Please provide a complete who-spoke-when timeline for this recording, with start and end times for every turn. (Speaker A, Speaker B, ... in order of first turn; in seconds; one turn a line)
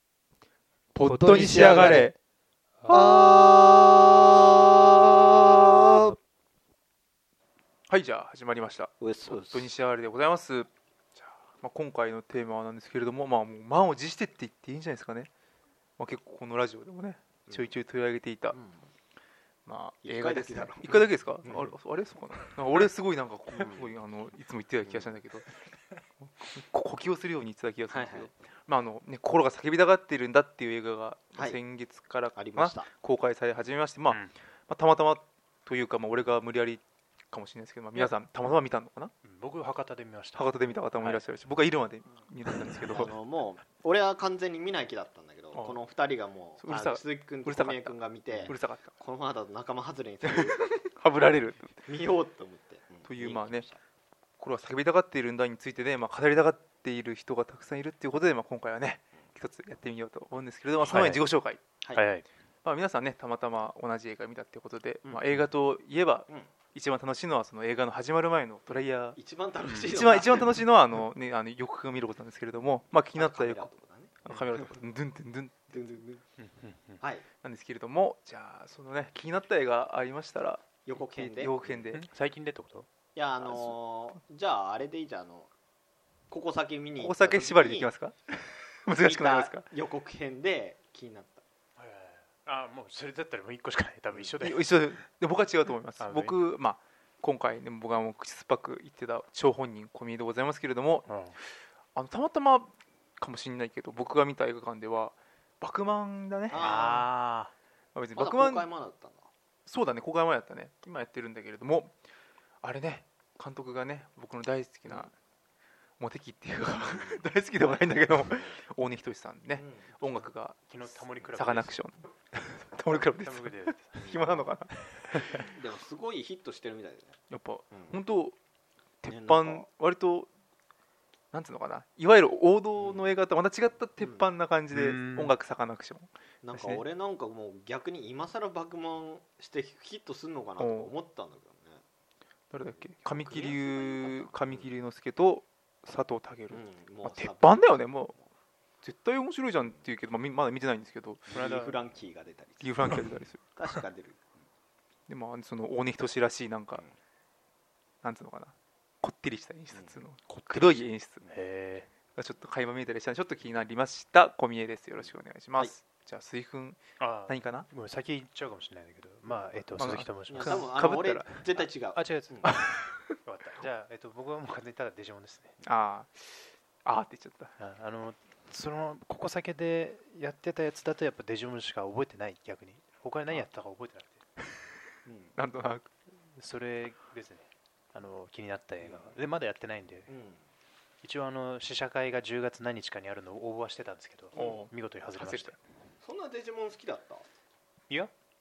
Speaker A: 0.9-2.1
Speaker B: 1.1-2.1
Speaker C: 1.1-2.1
Speaker C: 2.8-3.2
Speaker B: 2.9-6.2
Speaker A: 7.9-15.3
Speaker B: 9.0-9.7
Speaker A: 16.0-18.6
Speaker B: 18.5-18.9
Speaker A: 19.6-25.5
Speaker B: 20.0-21.7
Speaker B: 23.5-23.9
Speaker A: 26.2-39.1
Speaker B: 27.9-28.3
Speaker B: 32.3-32.9
Speaker C: 39.2-41.2
Speaker A: 40.4-43.1
Speaker B: 42.8-50.6
Speaker A: 45.5-45.8
Speaker A: 46.6-48.9
Speaker A: 50.2-51.7
Speaker B: 51.9-53.8
Speaker A: 53.0-53.6
Speaker A: 54.4-61.6
Speaker C: 60.9-61.2
Speaker C: 61.9-62.2
Speaker A: 62.6-69.2
Speaker B: 65.0-65.3
Speaker B: 69.2-70.6
Speaker C: 69.7-70.0
Speaker A: 69.9-73.7
Speaker B: 73.2-74.7
Speaker A: 74.2-75.7
Speaker B: 75.7-76.2
Speaker C: 76.4-77.0
Speaker B: 77.0-77.2
Speaker A: 77.4-82.0
Speaker B: 80.8-81.8
Speaker C: 81.9-82.8
Speaker B: 83.2-85.5
Speaker A: 83.4-83.7
Speaker B: 86.3-87.9
Speaker A: 87.0-88.3
Speaker A: 88.8-89.6
Speaker B: 89.0-91.4
Speaker C: 91.8-94.7
Speaker A: 94.4-101.1
Speaker C: 96.0-96.3
Speaker C: 101.1-101.3
Speaker A: 101.9-106.7
Speaker B: 106.5-107.1
Speaker C: 106.5-107.5
Speaker A: 107.9-108.7
Speaker B: 108.2-109.2
Speaker A: 109.7-111.9
Speaker A: 112.6-115.1
Speaker A: 116.0-120.7
Speaker B: 116.7-118.6
Speaker B: 119.5-120.3
Speaker C: 120.7-121.8
Speaker A: 121.3-125.2
Speaker C: 122.9-125.5
Speaker B: 125.5-127.2
Speaker A: 127.3-128.3
Speaker A: 129.0-130.3
Speaker B: 129.1-129.7
Speaker A: 131.3-136.8
Speaker B: 132.8-133.1
Speaker B: 134.0-134.3
Speaker C: 134.7-135.3
Speaker B: 136.4-141.8
Speaker A: 140.6-140.9
Speaker A: 142.5-148.1
Speaker B: 143.0-144.7
Speaker B: 146.5-147.9
Speaker A: 148.8-151.3
Speaker B: 151.3-153.0
Speaker C: 151.3-151.8
Speaker A: 152.6-153.4
Speaker B: 153.6-154.2
Speaker A: 155.1-156.8
Speaker A: 158.0-161.2
Speaker C: 160.3-161.9
Speaker A: 162.2-167.7
Speaker C: 167.0-170.7
Speaker A: 169.8-171.6
Speaker B: 170.3-172.5
Speaker C: 171.9-172.6
Speaker A: 172.4-173.2
Speaker C: 173.2-175.5
Speaker A: 175.6-177.5
Speaker C: 177.6-184.2
Speaker B: 185.1-185.3
Speaker A: 185.3-185.8
Speaker C: 186.4-190.1
Speaker B: 188.8-189.1
Speaker B: 190.1-190.4
Speaker C: 191.0-195.6
Speaker B: 194.3-194.6
Speaker A: 194.3-195.5
Speaker B: 196.0-197.2